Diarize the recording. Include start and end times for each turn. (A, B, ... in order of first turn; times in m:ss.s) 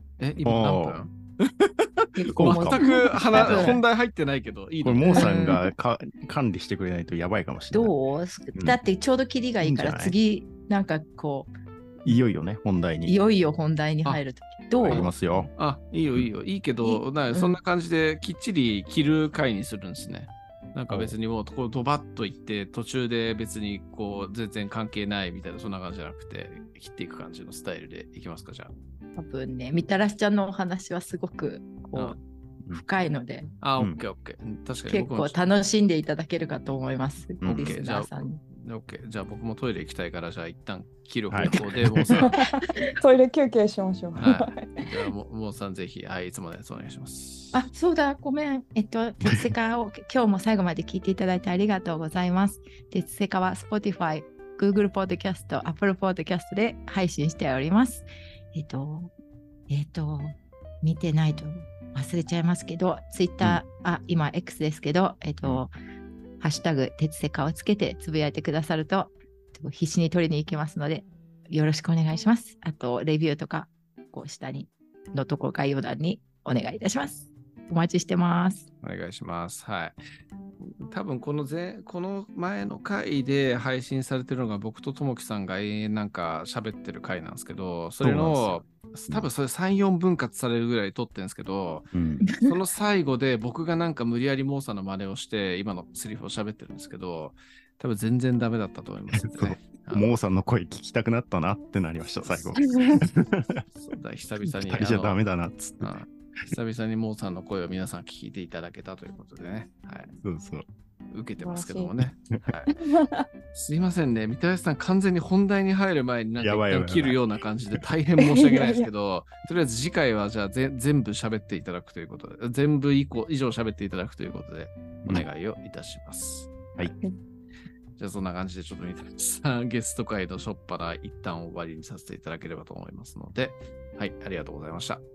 0:00.2-0:05.6 A
0:00.4-0:01.0 B
0:02.2-0:03.8 C
0:02.4-0:03.8 B
0:04.8-0:07.9 B
0:05.1-0:05.6 C
0:07.7-0:11.6 C
0:08.5-0:08.8 B
0:09.6-0:10.2 B
0:12.0-0:13.2 B
0:13.1-0:15.5 C
0:14.8-0:28.7 A
0:14.8-0:15.5 B
0:16.8-0:17.6 C
0:20.9-0:21.2 B
0:29.2-0:32.2 C
0:32.7-0:33.5 C
0:33.6-0:35.4 A
0:34.9-0:38.4 C
0:37.4-0:37.8 B
0:37.4-0:42.4 A
0:41.3-0:42.3 B
0:42.1-0:44.9 D
0:44.2-0:47.6 A
0:47.5-0:59.1 C
0:59.7-1:05.7 C
1:06.4-1:18.7 C
1:18.8-1:20.0 A
1:20.6-1:40.1 A
1:28.0-1:29.3 B
1:31.9-1:32.3 B
1:32.2-1:32.6 C
1:39.1-1:43.6 B
1:42.2-1:43.0 A
1:42.6-1:43.0 D
1:43.7-1:45.2 A
1:44.4-1:45.9 B
1:45.8-1:50.2 A
1:50.2-1:50.7 B
1:51.1-1:52.7 A
1:51.4-1:52.0 D
1:52.7-1:53.3 D
1:53.5-2:06.7 A
1:56.4-1:57.2 B
1:58.2-1:58.9 D
2:08.0-2:15.0 A